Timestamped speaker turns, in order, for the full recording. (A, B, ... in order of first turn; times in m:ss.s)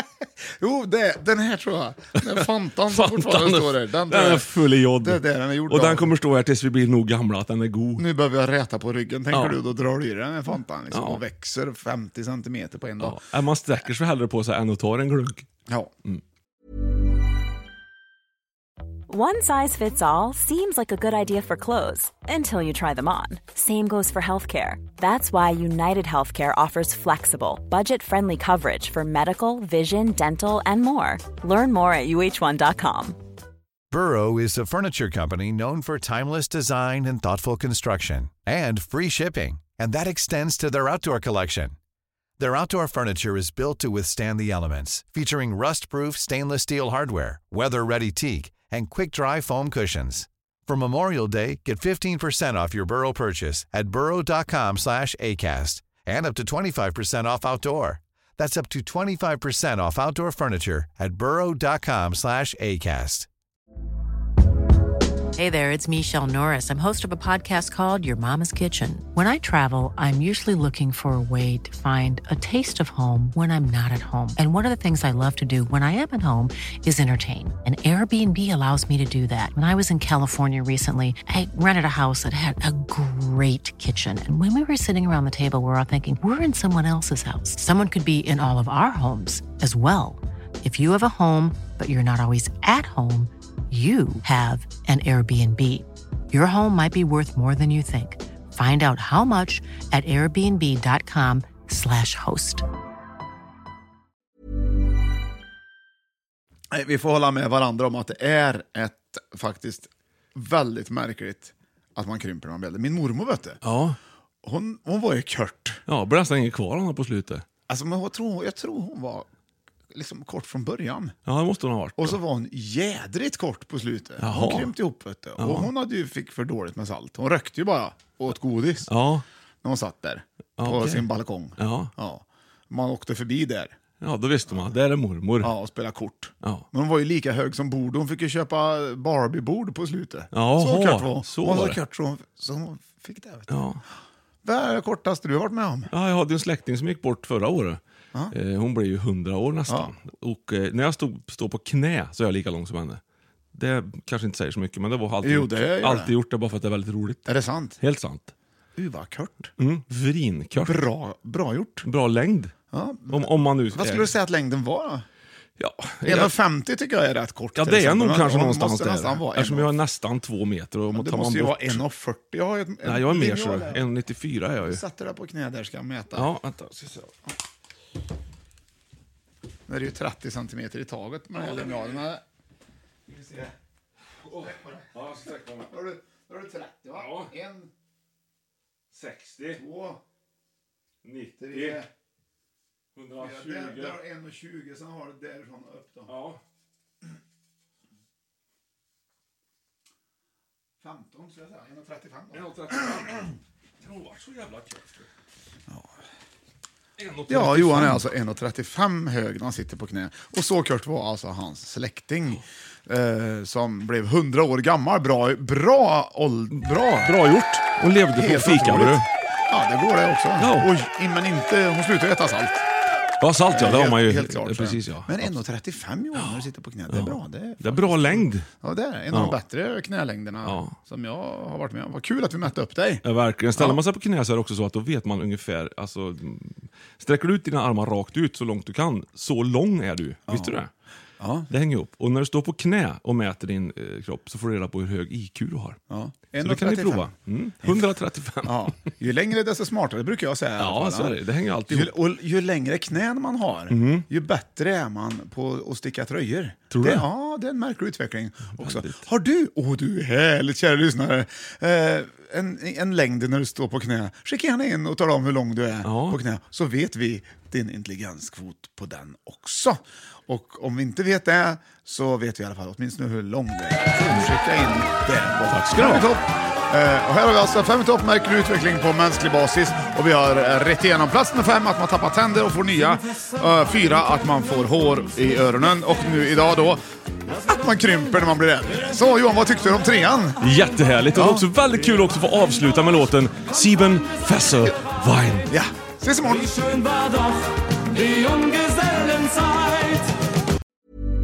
0:00.6-0:04.5 A
0:02.4-0:08.0 B
0:05.0-0:06.1 A
0:08.0-0:13.2 A
0:09.3-0:09.6 B
0:10.9-0:11.2 B
0:13.0-0:15.5 B
0:19.1-0:33.2 C
0:33.9-0:41.8 D
0:42.4-1:03.3 D
1:05.4-1:42.6 E
1:46.7-1:53.6 A
1:53.6-1:54.0 B
1:54.4-1:55.8 A
1:55.9-1:57.4 B
1:57.7-1:59.3 A
1:59.9-2:01.2 A
2:01.3-2:02.2 B
2:02.0-2:08.9 A
2:04.2-2:04.8 B
2:05.4-2:05.7 B
2:08.8-2:09.2 B
2:09.6-2:13.8 A
2:10.6-2:11.1 B
2:11.6-2:11.9 B
2:14.0-2:15.5 B
2:15.4-2:23.6 A
2:20.3-2:21.8 B
2:23.5-2:23.8 B
2:24.4-2:25.9 A
2:25.9-2:33.0 B
2:29.7-2:29.9 A
2:33.5-2:37.3 B
2:35.2-2:36.1 A
2:37.3-2:37.8 A
2:37.8-2:38.3 B
2:38.8-2:39.5 A
2:39.6-2:40.8 B
2:40.6-2:41.9 A
2:41.8-2:42.5 B
2:42.7-2:45.1 A
2:43.1-2:44.1 B
2:45.6-2:46.4 B
2:46.0-2:49.7 A
2:47.6-2:51.8 B
2:50.9-2:53.9 A
2:52.8-2:54.8 B
2:54.6-2:56.3 A
2:56.1-2:57.1 B
2:59.7-3:02.2 A
3:01.4-3:02.0 B
3:03.1-3:03.5 A
3:04.2-3:05.7 B
3:04.4-3:07.7 A
3:06.9-3:07.3 B
3:08.9-3:09.6 B
3:09.5-3:10.0 A
3:11.0-3:11.8 B
3:11.4-3:11.9 A
3:13.0-3:14.0 B
3:13.2-3:16.2 A
3:16.1-3:16.4 B
3:20.8-3:23.1 A
3:22.3-3:25.1 B
3:27.0-3:28.0 B
3:27.3-3:37.1 A
3:36.6-3:39.0 B
3:38.1-3:42.7 A
3:40.4-3:40.7 B
3:43.2-3:45.4 B
3:43.5-3:53.0 A
3:46.2-3:48.5 B
3:49.1-3:49.4 B
3:50.4-3:50.8 B
3:53.0-4:00.7 B
4:00.3-4:00.6 A
4:01.2-4:01.5 A
4:01.5-4:05.8 B
4:05.9-4:07.1 A
4:06.4-4:08.8 B
4:07.6-4:07.9 A
4:08.4-4:11.2 A
4:10.6-4:11.9 B
4:11.7-4:46.8 A
4:13.7-4:14.1 B
4:16.7-4:17.1 B
4:18.6-4:19.0 B
4:25.8-4:26.2 B
4:35.5-4:36.1 B
4:47.5-4:50.4 A
4:50.4-4:55.5 B
4:51.1-4:51.4 A
4:55.5-4:56.8 A